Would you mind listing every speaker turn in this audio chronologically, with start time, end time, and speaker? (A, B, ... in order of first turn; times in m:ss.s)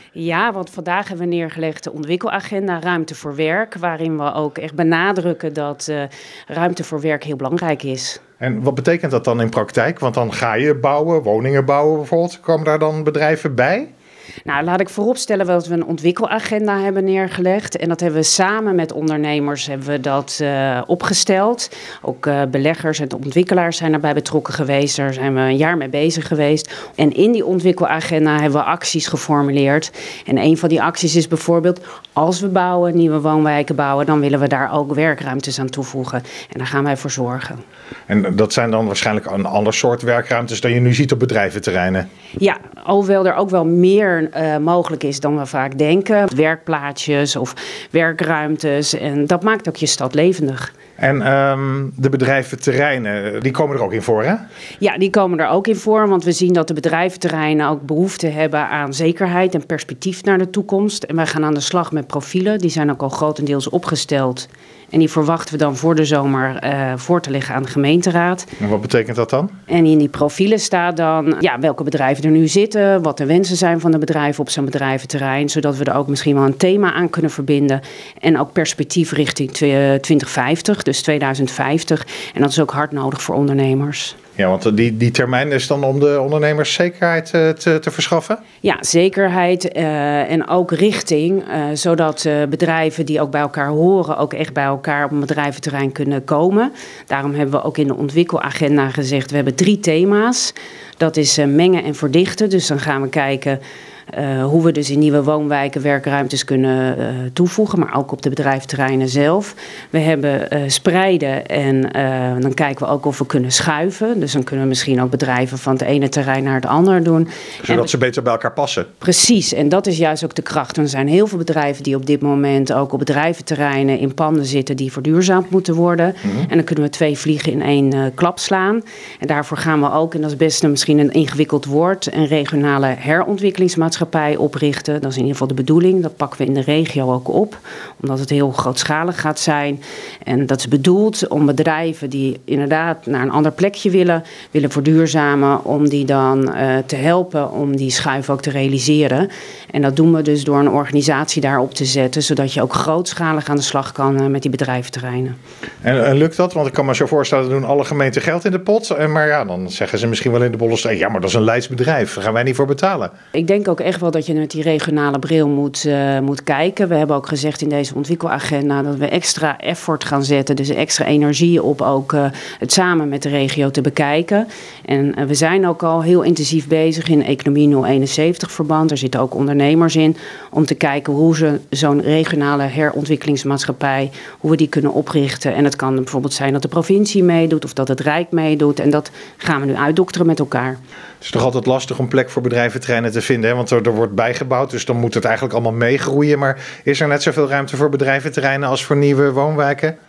0:00.2-0:08.2 A
0:08.4-0:13.9 B
0:14.5-0:37.6 A
0:38.1-0:42.1 B
0:42.4-0:50.7 A
0:51.0-0:54.4 B
0:54.8-1:08.5 A
1:08.6-1:09.5 B
1:09.7-1:24.2 A
1:24.4-1:28.4 B
1:28.6-1:57.9 A
1:57.6-1:58.9 B
1:59.0-2:35.4 A
2:35.8-2:43.1 B
2:43.3-3:10.8 A
3:11.2-3:20.0 B